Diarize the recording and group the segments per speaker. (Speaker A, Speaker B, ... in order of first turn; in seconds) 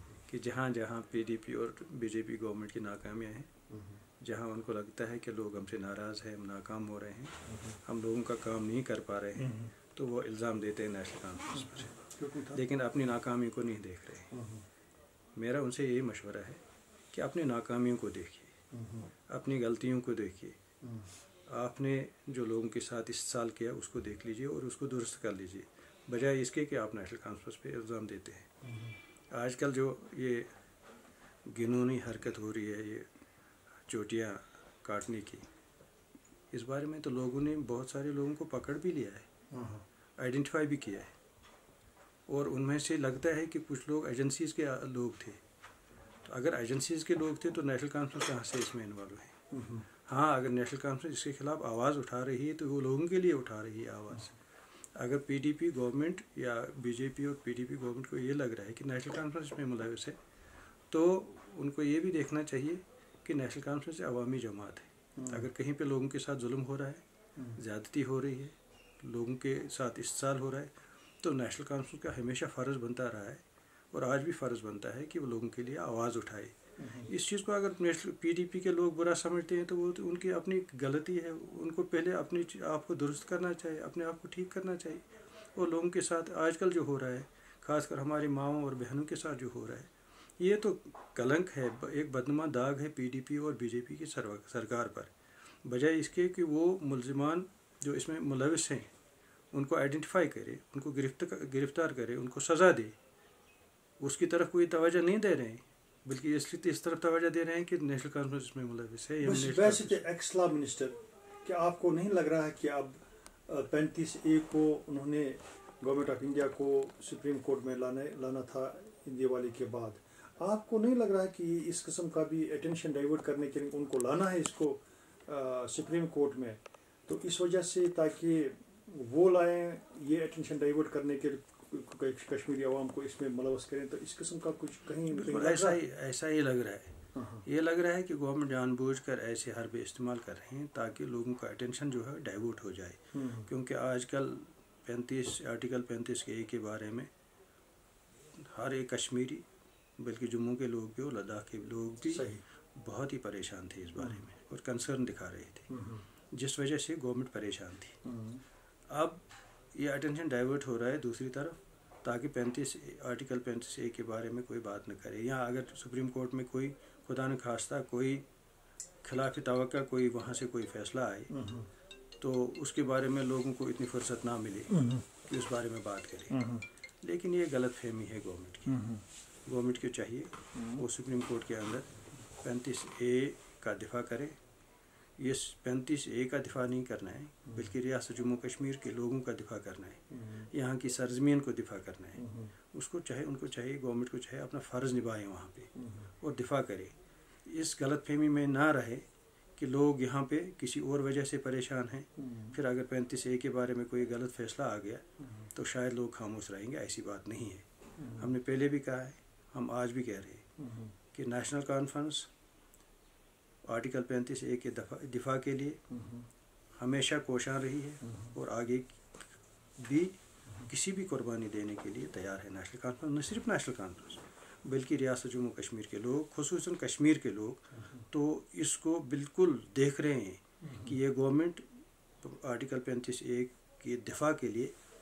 Speaker A: 0.3-3.5, 4.2-14.3, 15.4-16.6, 17.1-18.5, 19.3-20.6, 21.5-28.5, 29.3-30.5, 31.5-33.1, 33.9-35.5, 36.5-39.3, 40.2-41.1, 42.3-45.4, 46.2-49.4, 50.1-54.4, 55.0-60.2, 60.9-67.0, 67.5-95.1, 95.7-98.9, 99.5-103.0, 104.0-110.0, 135.1-147.1, 148.4-149.4, 150.0-155.7, 156.3-158.0, 158.9-159.2, 159.8-168.2, 169.0-171.3, 172.2-176.4, 177.0-178.8, 179.5-184.4, 185.2-196.9, 197.4-199.1, 199.6-210.4, 211.1-212.3, 213.7-215.8, 216.8-219.0, 219.8-231.6, 232.2-234.7
Speaker B: 3.7-4.0, 9.4-9.7, 11.5-12.6, 14.3-14.7, 18.7-19.1, 20.8-21.1, 28.6-29.0, 39.5-39.8, 49.5-49.9, 65.2-65.5, 76.8-77.1, 109.2-113.0, 113.5-135.8, 137.2-137.4, 143.1-143.5, 152.1-152.4, 155.7-156.0, 158.1-158.4, 171.3-171.7, 174.7-175.0, 176.3-176.7, 178.7-179.0, 180.6-180.8, 190.1-190.5, 192.2-192.5, 195.8-196.1, 202.2-202.5, 208.0-208.2, 210.6-210.9, 215.9-216.3, 230.6-230.9